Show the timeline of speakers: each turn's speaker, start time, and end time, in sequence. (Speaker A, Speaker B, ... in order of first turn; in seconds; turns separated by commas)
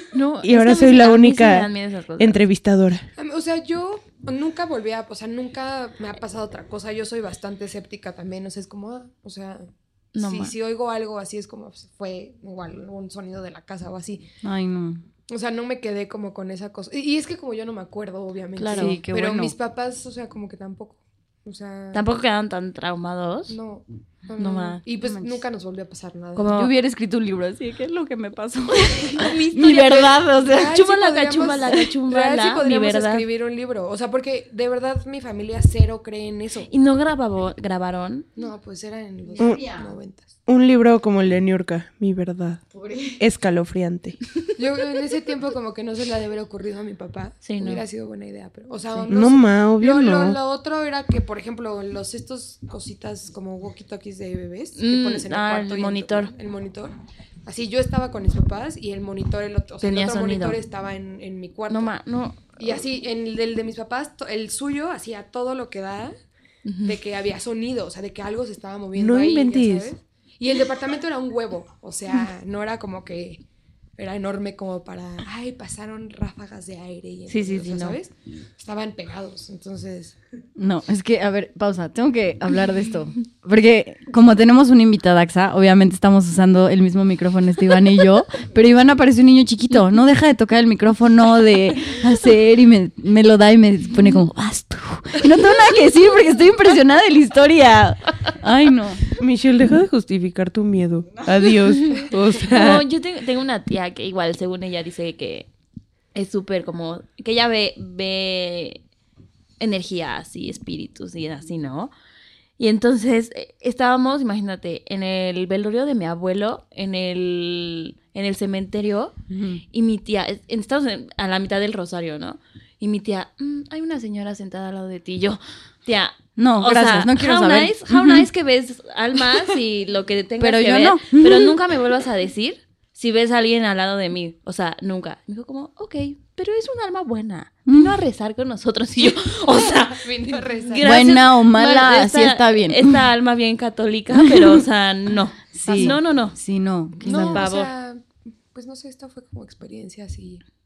Speaker A: 0.1-2.4, Speaker B: 0.4-3.1, Speaker C: 3.2-14.3, Speaker A: 10.1-10.6, Speaker D: 14.4-15.0, Speaker C: 15.3-22.0, Speaker A: 18.6-19.0, Speaker D: 18.7-19.6, Speaker A: 21.9-23.6, Speaker C: 23.5-26.5, Speaker A: 24.4-24.8, Speaker D: 25.0-25.4, Speaker A: 26.4-26.7, Speaker D: 26.5-30.8, Speaker A: 29.1-29.9, Speaker C: 29.1-36.7, Speaker A: 30.7-33.2, Speaker A: 36.7-38.3, Speaker C: 38.4-40.3, Speaker D: 39.3-39.9, Speaker B: 39.4-39.6, Speaker B: 40.5-42.6, Speaker D: 42.7-43.2, Speaker B: 43.2-44.2, Speaker C: 44.6-61.9, Speaker A: 47.4-47.9, Speaker B: 49.1-50.4, Speaker A: 54.8-56.3, Speaker A: 59.8-60.6, Speaker A: 61.7-62.8, Speaker C: 62.6-66.2, Speaker A: 66.7-67.0, Speaker C: 66.8-73.4, Speaker B: 69.0-69.9, Speaker C: 74.0-80.2, Speaker A: 77.3-78.0, Speaker D: 80.6-99.1, Speaker B: 99.2-102.8, Speaker A: 101.8-105.5, Speaker A: 106.1-108.8, Speaker A: 109.6-111.9, Speaker A: 112.6-119.1, Speaker D: 119.3-119.6, Speaker A: 119.7-146.4, Speaker D: 126.4-128.3, Speaker D: 130.4-131.6, Speaker D: 137.7-138.0, Speaker C: 139.8-141.0, Speaker D: 140.8-143.0, Speaker D: 144.2-144.6, Speaker D: 145.5-147.5, Speaker C: 145.7-146.0, Speaker A: 147.0-147.7, Speaker C: 147.0-150.4